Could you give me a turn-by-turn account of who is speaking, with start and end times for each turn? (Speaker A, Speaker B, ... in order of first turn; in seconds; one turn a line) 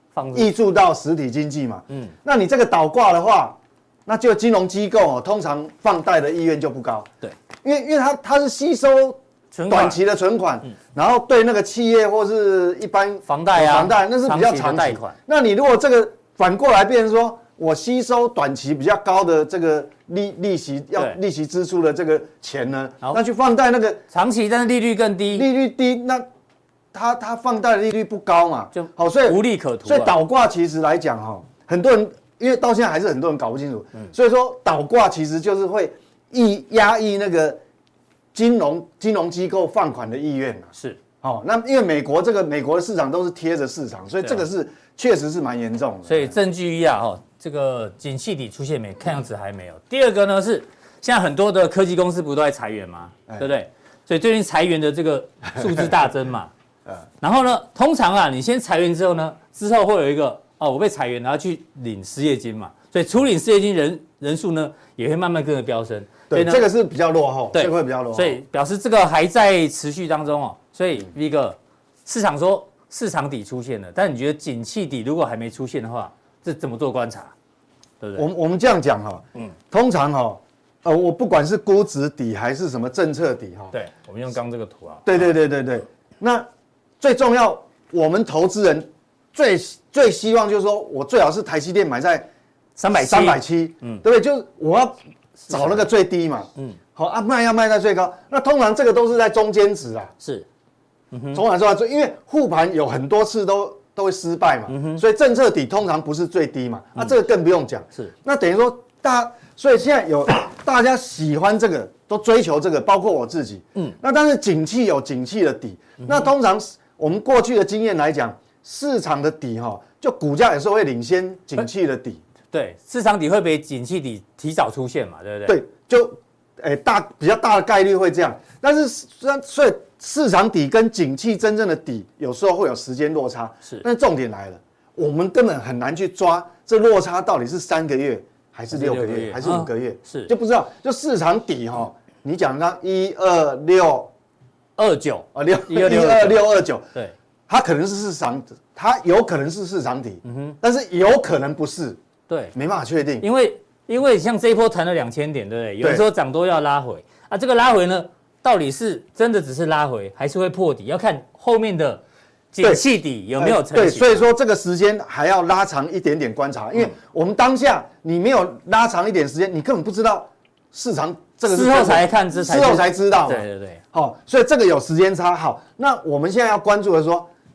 Speaker A: 0.1-0.5
Speaker B: 0.3-7.1
Speaker B: 7.6-24.0
Speaker A: 9.5-10.0
Speaker A: 13.3-15.2
Speaker A: 24.1-25.5
Speaker B: 25.3-26.3
Speaker B: 26.9-37.6
Speaker A: 28.7-30.1
Speaker B: 38.3-46.3
Speaker A: 46.1-56.5
Speaker A: 57.2-66.7
Speaker B: 66.3-68.4
Speaker A: 67.5-77.3
Speaker A: 78.0-78.3
Speaker B: 78.2-83.7
Speaker A: 83.7-85.3
Speaker B: 85.1-86.5
Speaker B: 87.0-92.3
Speaker A: 92.8-94.0
Speaker B: 92.9-100.1
Speaker A: 95.5-95.8
Speaker A: 100.2-100.5
Speaker A: 101.1-101.4
Speaker B: 101.3-122.2
Speaker A: 104.7-105.0
Speaker A: 116.0-116.3
Speaker A: 122.5-125.6
Speaker B: 125.5-144.1
Speaker A: 138.7-140.3
Speaker A: 144.8-147.1
Speaker B: 145.3-146.9
Speaker B: 147.5-152.0
Speaker A: 150.2-150.6
Speaker A: 152.3-152.5
Speaker B: 152.6-153.3
Speaker A: 153.2-162.0
Speaker B: 155.8-156.1
Speaker A: 162.5-164.3
Speaker B: 163.4-177.3
Speaker A: 171.5-173.8